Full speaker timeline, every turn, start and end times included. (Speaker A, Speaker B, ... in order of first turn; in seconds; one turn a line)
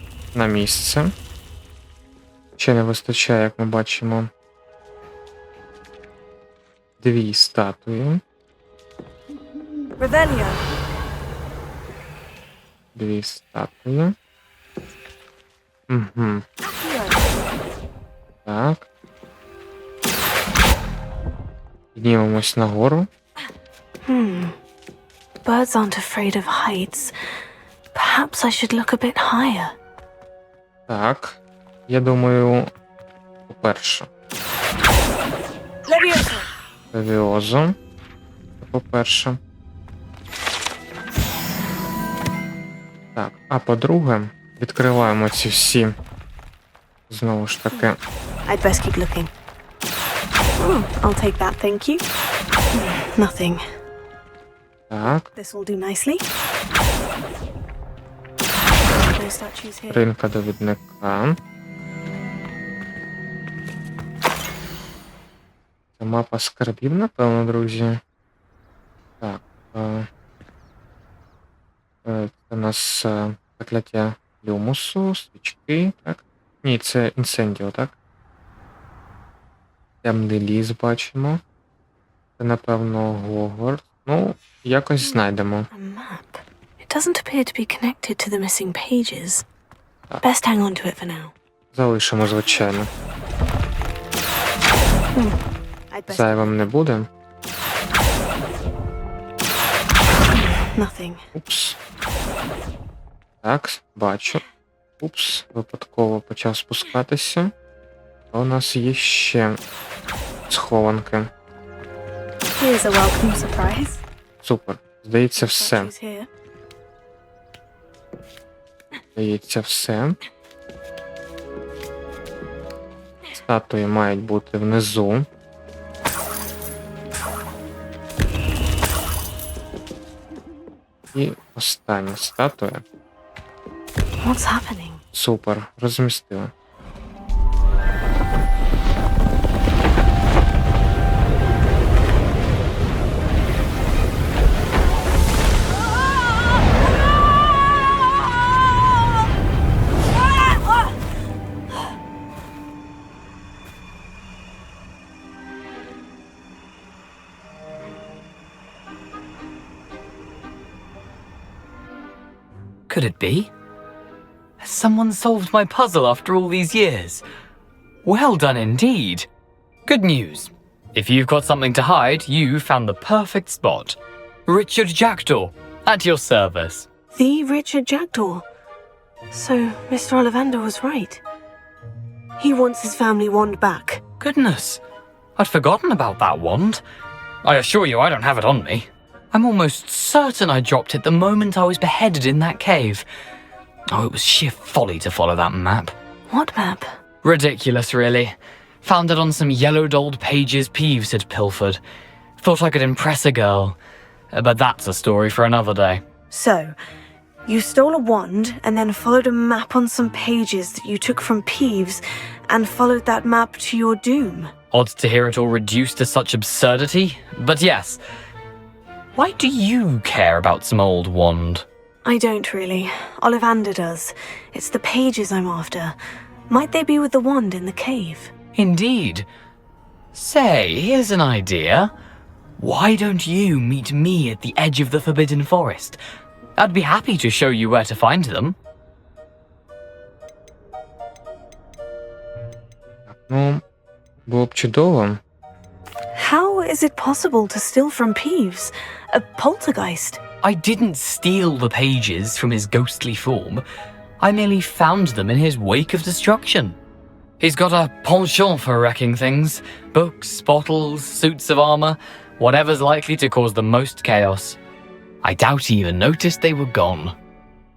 Speaker A: 0.3-1.1
Speaker A: 2.6-4.3
Speaker A: 7.0-8.2
Speaker B: 10.0-10.6
Speaker A: 12.9-14.2
Speaker A: 15.9-16.4
Speaker B: 16.6-17.3
Speaker A: 18.4-18.9
Speaker A: 21.9-23.1
Speaker B: 24.1-24.6
Speaker B: 25.4-27.1
Speaker B: 27.9-29.7
Speaker A: 30.9-32.7
Speaker A: 33.5-34.1
Speaker B: 35.9-36.5
Speaker A: 36.9-37.8
Speaker A: 38.6-39.4
Speaker A: 43.1-46.0
Speaker A: 47.1-48.0
Speaker B: 47.7-49.3
Speaker B: 50.6-52.0
Speaker B: 52.7-53.6
Speaker A: 54.9-55.3
Speaker B: 55.4-56.2
Speaker B: 59.0-60.0
Speaker A: 59.9-61.4
Speaker A: 66.0-68.0
Speaker A: 69.2-70.1
Speaker A: 72.0-77.9
Speaker A: 80.0-81.4
Speaker A: 82.4-85.7
Speaker B: 85.0-89.4
Speaker B: 90.2-91.3
Speaker A: 91.7-92.9
Speaker B: 95.9-96.5
Speaker A: 96.1-97.1
Speaker B: 100.3-101.2
Speaker A: 101.3-101.8
Speaker A: 103.4-104.4
Speaker A: 105.0-107.5
Speaker A: 108.3-109.6
Speaker A: 110.5-111.3
Speaker B: 112.6-114.0
Speaker A: 114.4-115.9
Speaker B: 115.4-116.3
Speaker A: 119.2-120.2
Speaker A: 123.3-125.3
Speaker A: 131.1-132.8
Speaker B: 134.2-135.0
Speaker A: 135.1-136.5
Speaker C: 162.9-163.5
Speaker C: 164.6-167.2
Speaker C: 168.0-169.3
Speaker C: 169.9-176.9
Speaker B: 177.1-178.4
Speaker B: 179.3-181.2
Speaker B: 182.4-184.0
Speaker C: 184.2-184.8
Speaker C: 185.4-186.8
Speaker C: 187.4-193.1
Speaker C: 193.9-195.9
Speaker B: 196.3-197.0
Speaker C: 197.2-201.8
Speaker C: 202.4-203.8
Speaker C: 204.3-206.0
Speaker B: 206.3-206.7
Speaker B: 207.4-214.5
Speaker C: 214.7-218.0
Speaker C: 219.2-221.7
Speaker B: 222.0-226.0
Speaker B: 226.5-228.3
Speaker C: 228.6-229.3
Speaker C: 230.1-231.9
Speaker C: 232.6-236.0
Speaker C: 236.6-238.6
Speaker A: 243.1-243.6
Speaker A: 244.2-245.2
Speaker B: 246.2-250.2
Speaker C: 250.4-253.6
Speaker C: 254.2-256.8
Speaker C: 257.4-264.6
Speaker C: 265.2-267.1